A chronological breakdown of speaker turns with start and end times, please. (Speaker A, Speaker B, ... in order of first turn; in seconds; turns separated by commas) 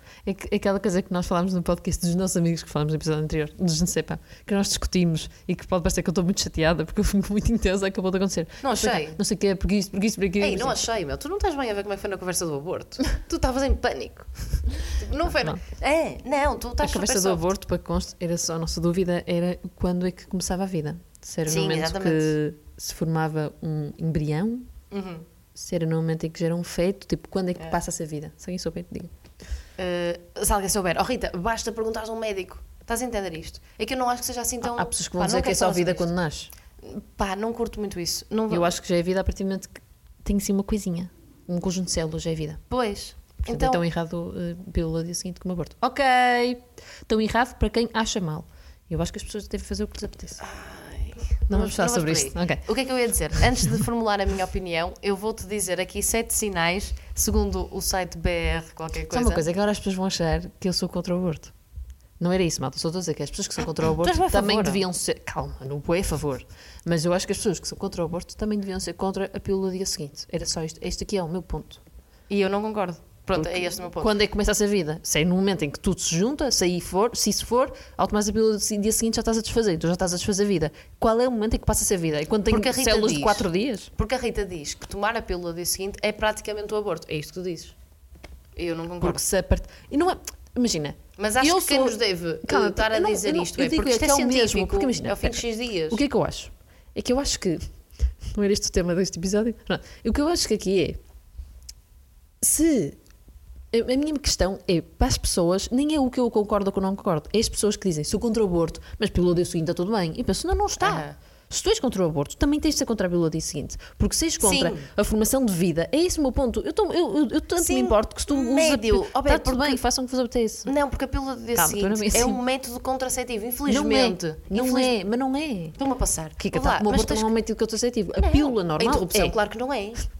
Speaker A: 0.2-10.8, Speaker B: 8.6-9.2, Speaker B: 10.4-17.5, Speaker A: 15.2-15.6, Speaker A: 16.8-24.7, Speaker B: 21.4-22.3, Speaker B: 24.9-25.2, Speaker A: 25.5-29.1, Speaker B: 29.8-36.1, Speaker A: 34.6-36.5, Speaker B: 36.8-38.7, Speaker A: 38.5-42.6, Speaker B: 42.7-43.8, Speaker A: 43.5-50.4, Speaker B: 50.4-59.4, Speaker A: 51.5-52.6, Speaker A: 53.3-53.6, Speaker A: 59.1-61.5, Speaker A: 62.2-71.8, Speaker B: 63.6-64.8, Speaker B: 72.3-74.1, Speaker A: 73.3-83.9, Speaker B: 82.5-87.7, Speaker B: 88.6-89.2, Speaker A: 89.0-97.7, Speaker B: 91.2-96.0, Speaker A: 98.2-101.0, Speaker A: 102.4-103.0, Speaker A: 103.7-120.7, Speaker B: 110.8-111.1, Speaker B: 114.4-114.9, Speaker B: 117.6-119.8, Speaker B: 120.6-124.9, Speaker A: 121.5-122.4, Speaker A: 123.7-125.8, Speaker B: 125.8-127.3, Speaker A: 126.4-129.4, Speaker B: 128.1-130.1